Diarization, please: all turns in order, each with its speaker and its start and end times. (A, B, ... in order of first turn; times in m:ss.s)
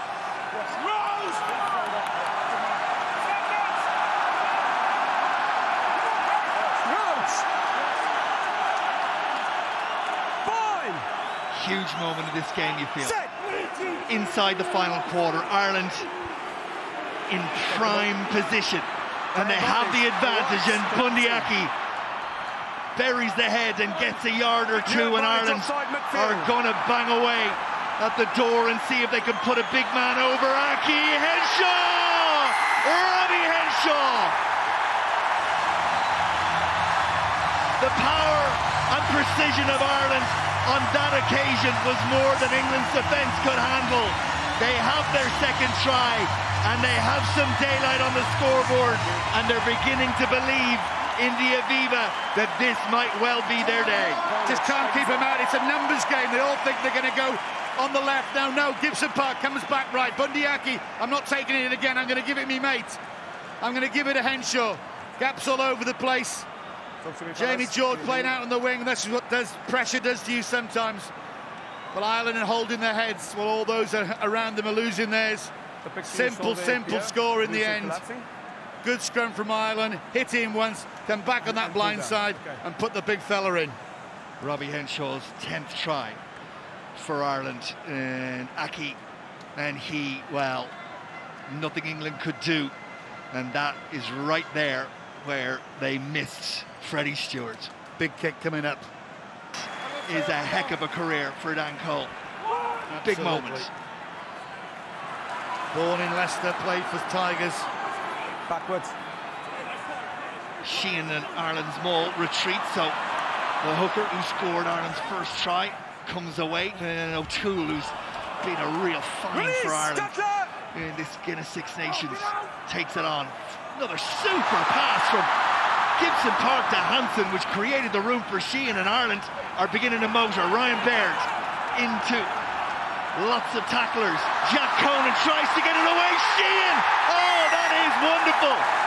0:01.0-0:01.4 A
0:06.4-0:07.5 A
0:10.4-0:11.1 A
0:11.5-0:13.2 B
0:13.0-0:13.3 A
0:14.1-0:16.1 B
0:17.3-0:21.7 B
0:17.7-0:18.1 A
0:19.3-0:21.6 A
0:23.0-0:34.4 B
0:24.8-0:26.5 A
0:37.8-0:54.2 B
0:54.2-0:55.3 A
0:54.4-1:03.0 C
1:03.6-1:06.5 C
1:07.0-1:08.3 A
1:07.4-1:11.1 C
1:11.9-1:15.5 C
1:15.8-1:18.3 A
1:16.0-1:18.0 C
1:18.8-1:23.8 C
1:21.4-1:22.6 A
1:24.4-1:26.2 B
1:26.9-1:29.0 B
1:29.6-1:30.8 B
1:31.5-1:32.7 B
1:33.3-1:37.7 B
1:38.0-1:38.9 C
1:40.0-1:42.1 B
1:42.9-1:43.7 C
1:43.0-1:43.7 B
1:45.7-1:47.7 C
1:48.5-1:49.0 A
1:50.6-1:53.0 B
1:53.6-2:00.2 B
1:59.3-2:00.5 A
2:00.7-2:05.3 B
2:06.0-2:12.3 B
2:13.1-2:18.7 B